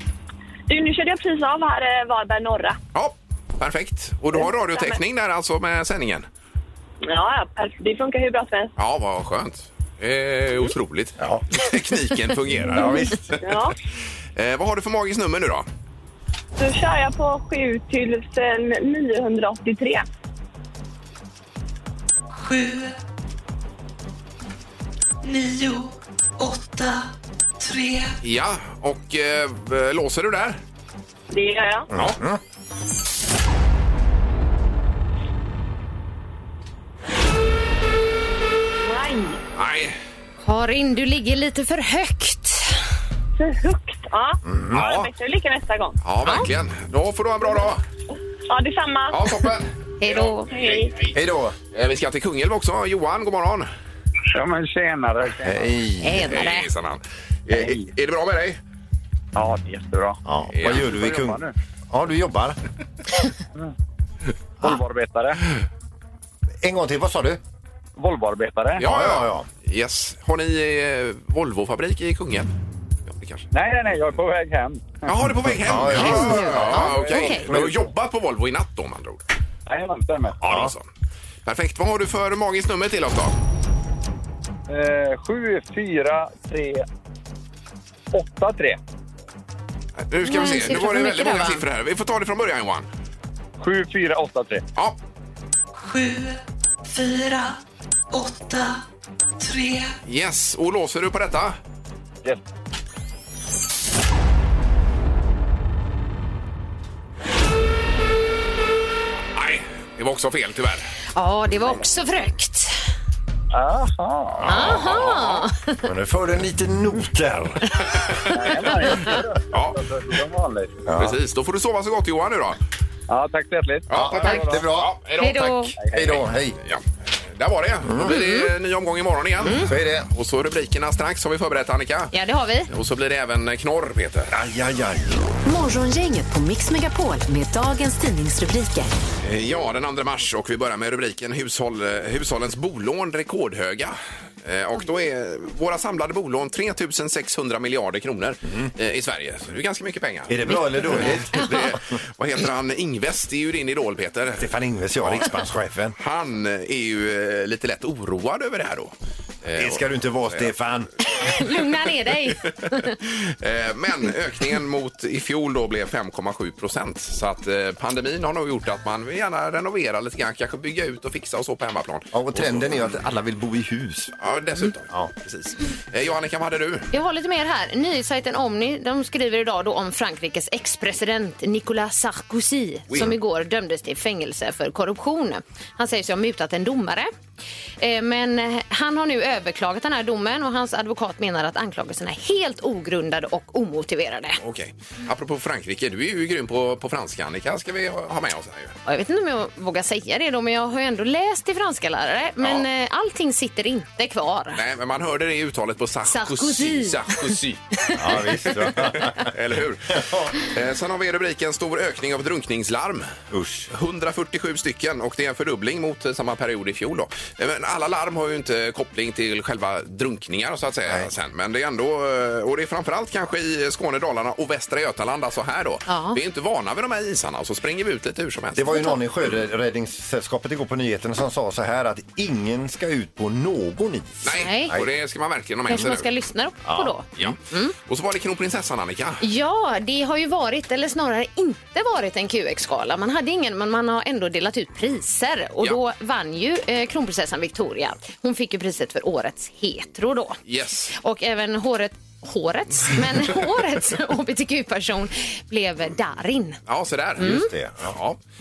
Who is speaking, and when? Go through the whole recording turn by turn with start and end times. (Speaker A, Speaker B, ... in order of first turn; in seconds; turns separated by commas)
Speaker A: 0.7-2.8, Speaker B: 2.9-6.2, Speaker A: 4.3-5.0, Speaker A: 7.0-8.7, Speaker B: 8.8-13.4, Speaker C: 11.2-11.4, Speaker C: 12.7-13.2, Speaker A: 13.4-13.8, Speaker B: 14.4-15.7, Speaker A: 16.6-20.0, Speaker D: 22.3-23.0, Speaker D: 25.2-28.2, Speaker B: 28.2-30.6, Speaker A: 31.3-31.9, Speaker C: 31.9-32.4, Speaker A: 38.8-39.4, Speaker B: 39.5-40.0, Speaker E: 40.4-42.8, Speaker A: 43.4-46.0, Speaker C: 44.4-44.9, Speaker B: 44.7-45.1, Speaker B: 46.0-47.8, Speaker A: 48.5-49.5, Speaker B: 49.1-51.1, Speaker E: 50.0-50.5, Speaker A: 50.5-50.9, Speaker C: 51.1-51.5, Speaker B: 51.7-53.7, Speaker F: 54.3-55.7, Speaker C: 55.4-56.3, Speaker E: 56.0-56.7, Speaker B: 56.2-58.6, Speaker F: 57.5-57.9, Speaker F: 59.4-61.5, Speaker C: 60.2-62.6, Speaker B: 60.5-60.9, Speaker F: 64.6-65.4, Speaker C: 66.6-67.4, Speaker F: 68.0-68.8, Speaker B: 68.8-72.5, Speaker C: 68.8-69.5, Speaker B: 73.1-73.4, Speaker F: 73.5-75.1, Speaker B: 75.0-79.2, Speaker C: 75.6-76.9, Speaker E: 75.9-77.5, Speaker F: 76.8-77.6, Speaker C: 77.5-77.8, Speaker F: 79.7-80.4, Speaker C: 80.4-80.7, Speaker B: 80.4-80.8, Speaker B: 81.5-83.3, Speaker F: 84.7-86.8, Speaker F: 88.1-88.8, Speaker B: 90.1-92.9, Speaker E: 90.2-91.6, Speaker F: 93.6-94.6, Speaker D: 95.8-97.6, Speaker D: 98.1-98.8, Speaker D: 99.4-100.0, Speaker B: 100.0-101.6, Speaker B: 109.3-110.9, Speaker E: 111.2-112.8, Speaker F: 113.5-114.5, Speaker E: 114.4-115.8, Speaker B: 114.5-115.5, Speaker C: 114.5-114.9, Speaker C: 115.8-117.7, Speaker B: 117.9-118.7, Speaker F: 118.3-120.8, Speaker B: 119.5-119.8, Speaker C: 120.9-121.2, Speaker B: 120.9-122.6, Speaker F: 123.1-124.6, Speaker B: 123.9-132.1, Speaker C: 123.9-124.9, Speaker E: 125.2-125.7, Speaker F: 125.8-126.1, Speaker C: 125.9-126.6, Speaker C: 127.9-128.2, Speaker E: 128.0-128.5, Speaker E: 129.4-129.7, Speaker C: 129.6-130.1, Speaker E: 132.1-132.7, Speaker B: 132.7-134.3, Speaker C: 134.3-135.4, Speaker G: 135.4-138.9, Speaker B: 139.2-155.3, Speaker C: 150.3-151.4, Speaker E: 150.5-151.7, Speaker C: 154.4-155.9, Speaker B: 156.0-158.9, Speaker B: 159.4-160.5, Speaker C: 159.6-160.9, Speaker E: 161.1-163.0, Speaker B: 163.1-172.9, Speaker C: 172.1-174.1, Speaker B: 174.2-176.9, Speaker E: 176.9-187.1, Speaker E: 187.8-194.4, Speaker B: 194.4-198.8, Speaker E: 198.9-204.6, Speaker B: 202.4-202.7, Speaker B: 204.5-207.6, Speaker E: 206.1-208.7, Speaker C: 207.9-209.3, Speaker B: 208.8-213.1, Speaker C: 209.9-210.3, Speaker C: 213.3-213.7, Speaker B: 213.7-228.7, Speaker E: 225.9-226.2, Speaker C: 228.5-234.9, Speaker E: 228.7-228.9, Speaker B: 234.2-236.1, Speaker E: 234.3-234.8, Speaker E: 235.7-237.8, Speaker C: 236.6-237.2, Speaker B: 237.2-239.2, Speaker E: 239.2-250.4, Speaker B: 250.4-250.9, Speaker E: 250.9-256.6, Speaker B: 256.7-258.2, Speaker C: 257.2-258.0, Speaker E: 257.2-257.5